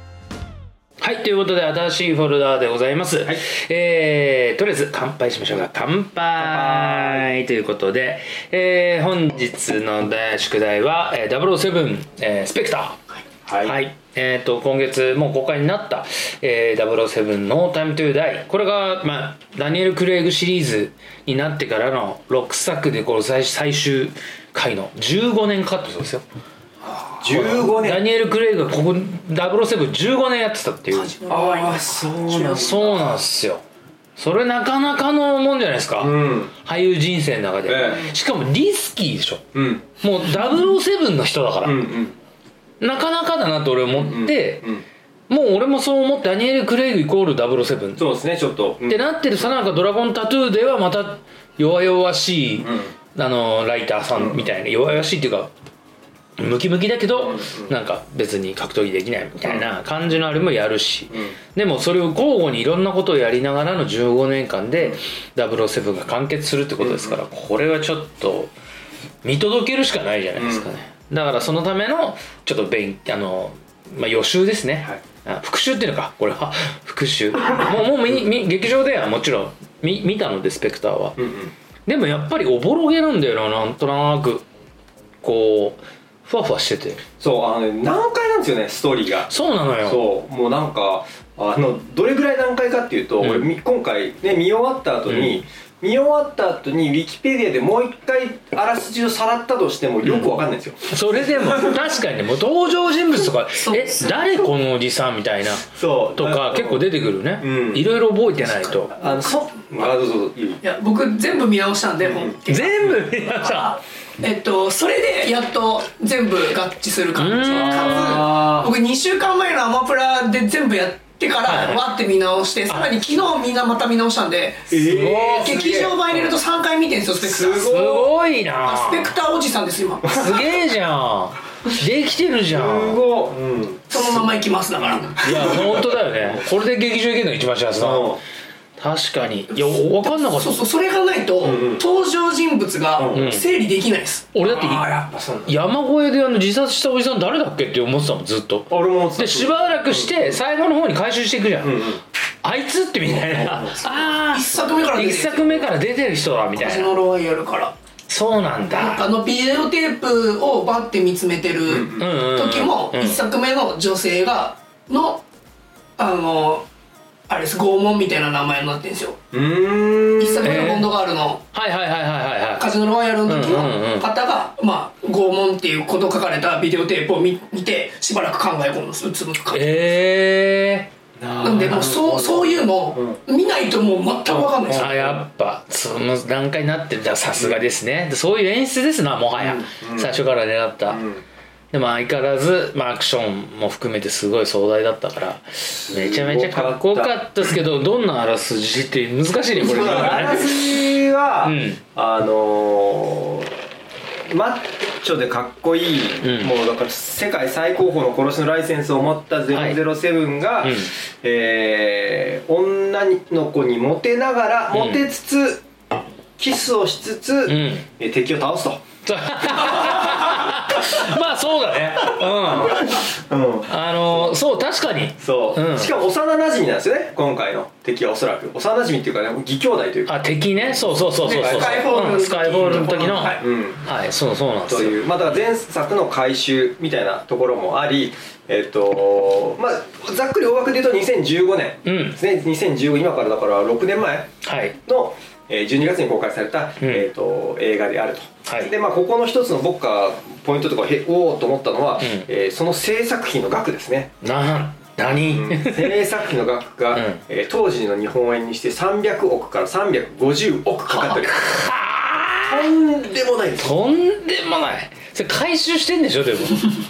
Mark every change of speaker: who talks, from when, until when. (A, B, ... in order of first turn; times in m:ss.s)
0:01.0-0:13.0 A
0:06.4-0:07.3 B
0:13.5-0:13.8 B
0:13.6-0:26.2 A
0:27.2-0:28.1 B
0:27.3-0:31.1 A
0:30.9-0:33.1 C
0:31.3-0:33.1 B
0:32.5-0:33.6 A
0:34.2-0:39.5 A
0:36.0-0:36.5 B
0:37.7-0:38.1 B
0:39.5-0:39.9 B
0:40.0-0:41.9 A
0:41.6-0:42.2 B
0:42.8-0:44.7 A
0:43.9-0:44.8 B
0:45.3-0:48.1 A
0:48.0-0:49.5 B
0:48.9-0:55.5 A
0:52.6-0:52.9 B
0:54.2-0:54.4 B
0:56.4-1:08.5 A
0:57.2-0:57.7 B
1:01.1-1:01.4 B
1:06.8-1:07.2 B
1:09.2-1:21.2 A
1:10.4-1:10.7 B
1:21.2-1:21.5 B
1:21.9-1:24.4 A
1:25.2-1:27.0 A
1:27.2-1:29.3 B
1:29.3-1:30.1 A
1:29.8-1:41.8 B
1:33.2-1:33.5 A
1:35.1-1:35.4 A
1:40.0-1:40.3 A
1:40.9-1:48.9 A
1:43.6-1:44.1 C
1:45.6-1:46.9 B
1:47.4-1:47.9 B
1:48.9-1:50.6 B
1:50.6-2:08.0 C
1:52.1-1:52.4 B
1:52.5-1:53.8 A
1:57.2-1:58.2 A
1:57.5-1:58.7 B
2:01.5-2:01.9 A
2:04.7-2:06.3 B
2:04.8-2:05.6 A
2:07.2-2:08.1 B
2:07.6-2:09.1 A
2:08.6-2:10.4 C
2:10.1-2:13.0 A
2:12.5-2:14.2 B
2:13.9-2:15.6 C
2:14.8-2:16.4 B
2:15.2-2:18.2 A
2:17.8-2:18.2 B
2:18.8-2:20.6 A
2:19.5-2:24.3 C
2:21.4-2:21.8 B
2:23.0-2:23.3 B
2:23.1-2:23.5 A
2:24.3-2:24.9 A
2:24.4-2:25.6 B
2:25.5-2:31.9 A
2:28.7-2:30.4 B
2:31.6-2:32.0 B
2:32.4-2:36.9 A
2:33.2-2:34.0 B
2:33.9-2:35.7 C
2:36.5-2:37.8 C
2:38.1-2:39.1 A
2:38.7-2:45.2 C
2:41.7-2:42.1 B
2:42.0-2:43.2 A
2:46.0-2:46.6 C
2:47.3-2:49.2 C
2:49.3-2:50.6 B
2:50.2-2:51.4 C
2:50.4-2:50.9 A
2:51.5-2:52.7 A
2:52.6-2:59.9 C
2:53.2-2:54.1 A
2:59.5-3:02.1 A
3:01.2-3:03.2 B
3:01.4-3:04.9 C
3:04.6-3:05.3 B
3:04.7-3:11.0 A
3:07.4-3:07.6 B
3:09.4-3:10.2 B
3:10.9-3:11.2 B
3:11.7-3:21.8 A
3:15.8-3:17.2 B
3:19.6-3:23.5 B
3:24.3-3:35.6 B
3:26.2-3:26.5 A
3:29.5-3:29.8 A
3:30.6-3:30.9 A
3:34.7-3:35.0 A
3:36.4-3:38.8 B
3:37.5-3:37.9 A
3:39.0-3:43.0 A
3:39.4-3:41.0 B
3:42.0-3:44.4 B
3:43.7-3:45.9 A
3:45.2-3:51.9 B
3:50.1-3:55.4 A
3:51.2-3:53.5 C
3:53.4-3:53.8 B
3:54.7-4:04.3 B
4:01.8-4:02.2 A
4:04.4-4:04.8 A
4:04.8-4:14.1 B
4:06.8-4:07.1 A
4:08.5-4:08.7 A
4:12.0-4:12.3 A
4:14.2-4:16.0 A
4:15.3-4:21.4 B
4:16.9-4:17.2 A
4:20.9-4:22.7 A
4:22.4-4:23.8 B
4:23.6-4:26.7 A